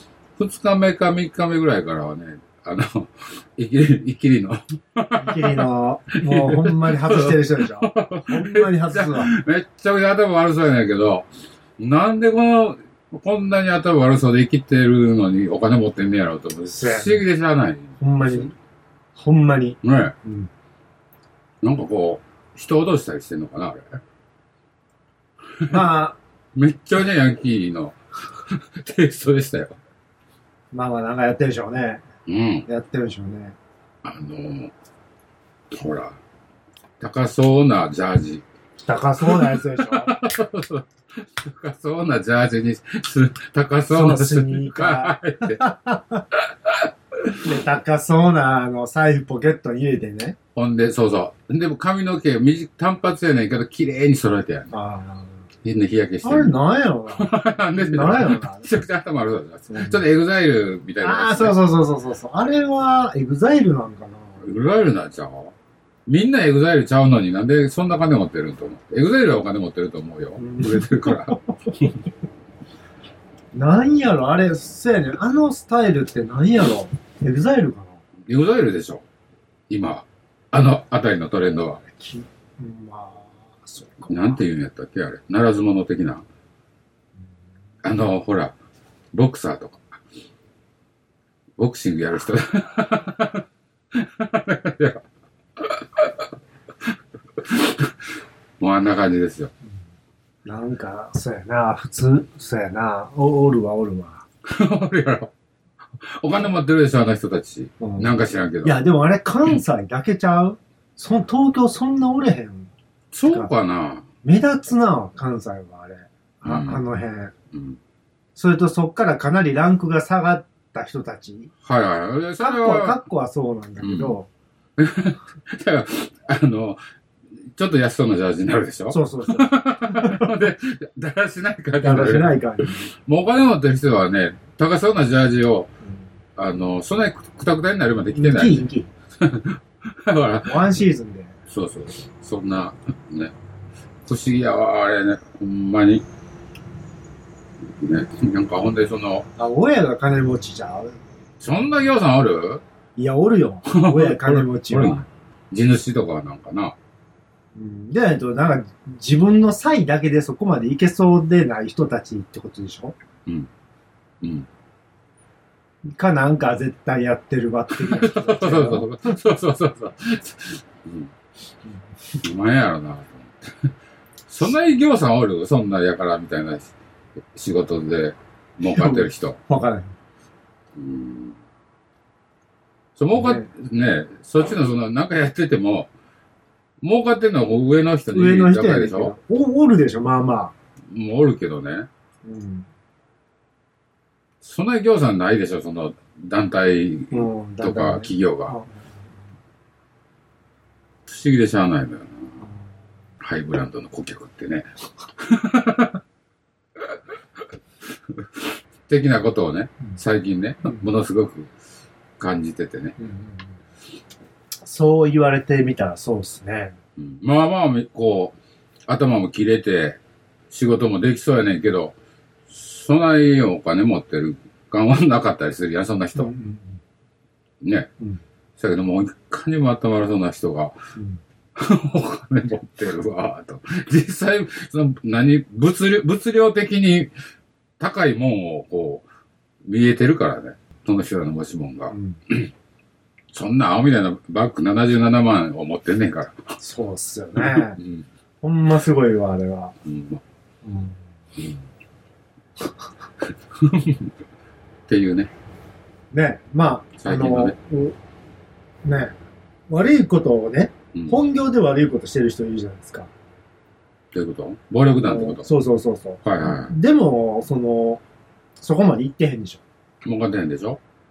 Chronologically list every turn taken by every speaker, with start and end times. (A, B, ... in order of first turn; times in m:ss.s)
0:00.4-0:18.5 A
0:05.2-0:09.3 B
0:16.7-0:17.2 B
0:18.0-0:18.5 B
0:19.2-0:20.5 B
0:19.8-0:20.2 A
0:21.6-0:24.0 A
0:25.7-0:26.2 B
0:26.6-0:29.8 A
0:30.7-0:32.0 B
0:32.3-0:32.7 A
0:32.7-0:33.6 B
0:34.0-0:34.7 A
0:35.7-0:36.2 A
0:37.0-0:38.4 A
0:38.8-0:40.1 B
0:39.2-0:45.6 A
0:43.9-0:46.3 B
0:46.3-0:47.4 A
0:47.4-0:50.4 B
0:50.6-0:54.7 A
0:54.7-0:55.4 B
0:55.6-0:56.6 A
0:56.2-0:58.7 B
0:57.1-1:01.6 A
0:59.7-1:00.0 B
1:01.0-1:04.4 B
1:04.4-1:05.5 A
1:06.1-1:11.9 A
1:10.4-1:11.8 B
1:13.5-1:18.0 B
1:18.3-1:19.0 A
1:19.7-1:21.8 A
1:21.8-1:24.4 B
1:24.1-1:26.2 A
1:27.8-1:28.6 A
1:29.1-1:30.0 A
1:31.6-1:35.0 A
1:35.6-1:39.5 A
1:40.4-1:44.2 B
1:44.4-1:45.3 A
1:46.0-1:48.8 A
1:47.8-1:52.7 B
1:53.1-1:54.1 A
1:54.2-1:57.3 B
1:56.4-1:56.8 A
1:57.5-1:57.8 A
1:58.4-2:01.5 B
2:01.6-2:03.0 A
2:02.4-2:04.3 B
2:03.8-2:04.2 A
2:04.8-2:06.8 A
2:07.4-2:15.7 A
2:08.9-2:10.3 B
2:11.8-2:12.9 B
2:16.4-2:18.7 A
2:18.2-2:18.9 B
2:19.2-2:20.8 A
2:20.4-2:21.4 B
2:21.5-2:23.3 A
2:24.1-2:26.0 A
2:27.6-2:29.3 A
2:29.4-2:31.0 B
2:31.4-2:32.6 A
2:33.0-2:35.1 B
2:33.7-2:36.8 A
2:37.6-2:43.0 B
2:44.2-2:44.5 A
2:45.9-2:49.2 B
2:47.7-2:51.1 A
2:52.2-2:53.7 A
2:54.3-2:56.7 A
2:57.3-2:59.4 A
2:58.6-2:59.9 B
3:00.8-3:01.4 A
3:03.0-3:05.9 A
3:03.2-3:03.5 B
3:06.8-3:09.2 A
3:08.1-3:10.5 B
3:10.9-3:11.9 A
3:12.2-3:12.7 B
3:14.4-3:18.5 A
3:17.1-3:18.9 B
3:21.1-3:22.4 A
3:23.2-3:26.0 A
3:27.8-3:31.5 A
3:32.2-3:33.0 A
3:33.0-3:33.5 B
3:34.6-3:36.8 B
3:37.0-3:38.4 A
3:38.9-3:40.0 A
3:40.5-3:42.0 A
3:42.5-3:46.3 A
3:46.2-3:46.8 B
3:47.6-3:47.9 A
3:48.6-3:50.7 A
3:51.0-3:51.2 B
3:51.6-3:57.1 A
3:57.8-3:59.0 A
3:59.6-4:02.5 A
4:01.9-4:02.2 B
4:03.3-4:06.4 A
4:06.6-4:07.8 B
4:07.4-4:08.1 A
4:08.4-4:09.7 B
4:09.8-4:10.2 A
4:10.6-4:11.0 B
4:13.5-4:14.1 A
4:14.9-4:15.3 A
4:16.1-4:18.0 B
4:17.0-4:17.6 A
4:18.8-4:19.1 B
4:19.7-4:23.1 B
4:24.1-4:25.5 A
4:25.0-4:28.0 B
4:26.2-4:26.8 A
4:28.6-4:29.6 B
4:30.0-4:30.8 A